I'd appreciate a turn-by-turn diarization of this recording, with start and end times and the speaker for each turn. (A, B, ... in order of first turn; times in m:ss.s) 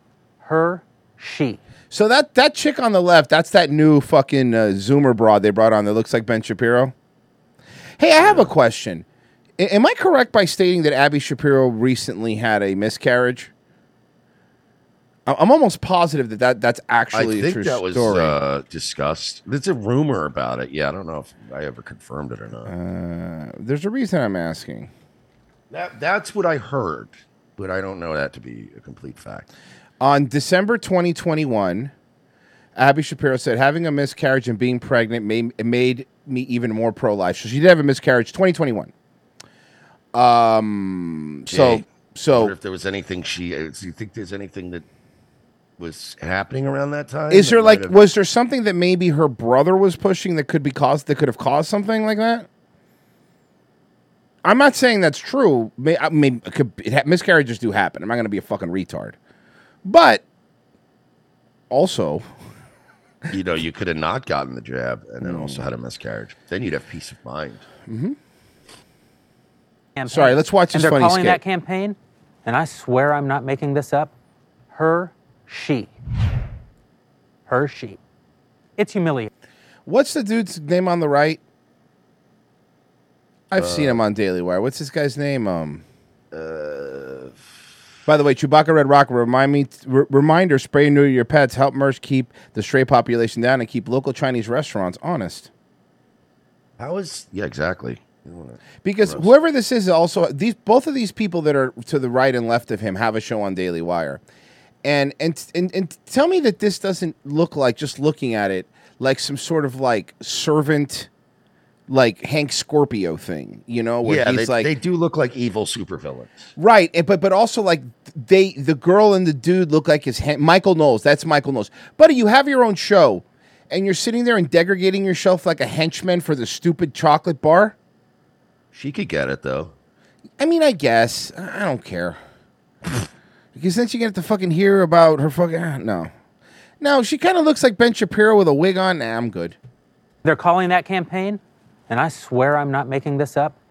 0:00.4-0:01.6 A
0:01.9-0:06.9 B
0:08.0-0:09.0 B
0:08.2-0:08.5 C
0:09.6-0:13.5 B
0:15.3-0:18.4 B
0:17.1-0:22.7 C
0:22.6-0:24.9 B
0:25.7-0:29.5 C
0:30.0-0:31.9 B
0:32.8-0:38.9 B
0:40.1-0:42.5 B
0:41.5-0:44.8 C
0:45.8-0:48.0 C
0:47.3-0:52.5 B
0:54.4-0:59.2 B
0:59.8-1:00.2 B
1:01.7-1:02.3 B
1:03.3-1:07.6 C
1:05.2-1:05.7 B
1:07.9-1:08.2 B
1:10.0-1:14.1 A
1:10.1-1:11.4 B
1:14.7-1:15.9 A
1:17.5-1:18.0 A
1:18.8-1:19.3 A
1:19.8-1:21.4 B
1:23.5-1:25.8 B
1:23.6-1:24.0 C
1:26.3-1:27.4 C
1:28.0-1:35.5 B
1:36.8-1:39.3 C
1:38.8-1:44.2 B
1:44.8-1:51.1 B
1:51.9-1:54.7 B
1:54.0-1:56.5 C
1:56.6-2:07.8 B
2:08.7-2:09.7 C
2:10.4-2:12.2 B
2:13.5-2:16.1 B
2:16.8-2:19.6 B
2:20.2-2:23.6 A